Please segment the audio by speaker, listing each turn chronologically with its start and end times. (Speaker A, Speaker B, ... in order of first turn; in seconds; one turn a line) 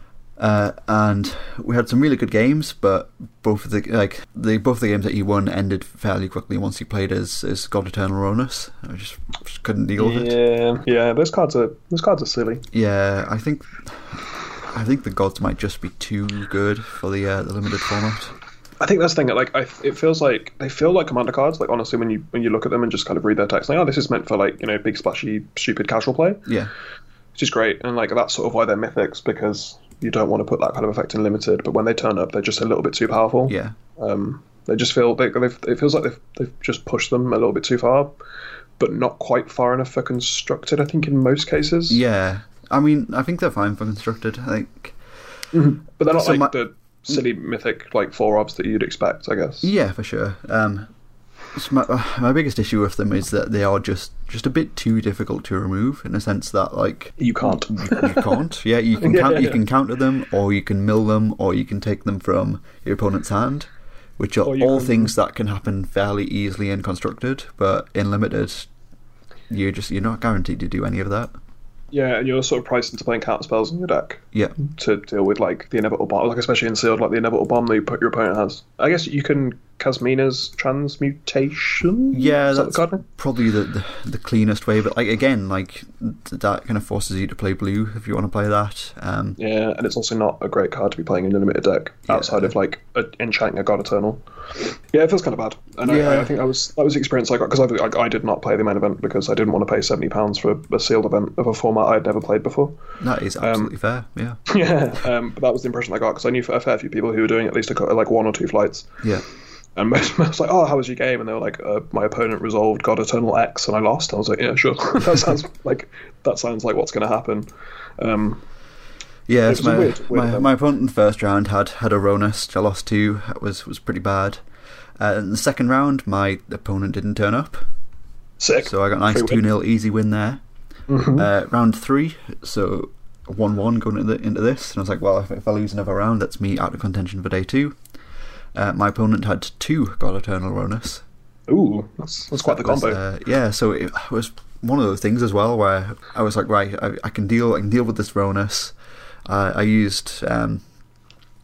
Speaker A: 0.4-10.3
Speaker B: 10.0-12.7
Speaker A: 12.7-14.2
Speaker A: 14.7-18.3
Speaker B: 18.8-26.4
Speaker A: 26.4-26.7
Speaker B: 27.4-38.1
Speaker A: 33.5-33.8
Speaker B: 38.8-42.0
Speaker A: 41.9-45.0
Speaker B: 45.5-49.7
Speaker A: 46.1-46.5
Speaker A: 49.6-50.9
Speaker A: 51.5-68.7
Speaker B: 57.2-58.4
Speaker B: 59.0-59.6
Speaker B: 64.4-65.1
Speaker A: 69.5-71.3
Speaker B: 71.9-83.0
Speaker A: 82.1-89.4
Speaker B: 89.4-102.8
Speaker A: 92.1-92.5
Speaker A: 95.8-96.3
Speaker A: 103.0-104.4
Speaker B: 103.4-103.7
Speaker B: 104.5-109.0
Speaker B: 109.7-117.5
Speaker B: 118.0-118.4
Speaker A: 119.3-124.4
Speaker B: 119.5-120.5
Speaker A: 125.0-127.6
Speaker B: 128.4-129.4
Speaker A: 128.6-130.4
Speaker B: 130.9-131.3
Speaker A: 131.1-137.8
Speaker A: 138.5-141.0
Speaker B: 141.5-143.0
Speaker A: 142.4-148.7
Speaker A: 149.3-150.6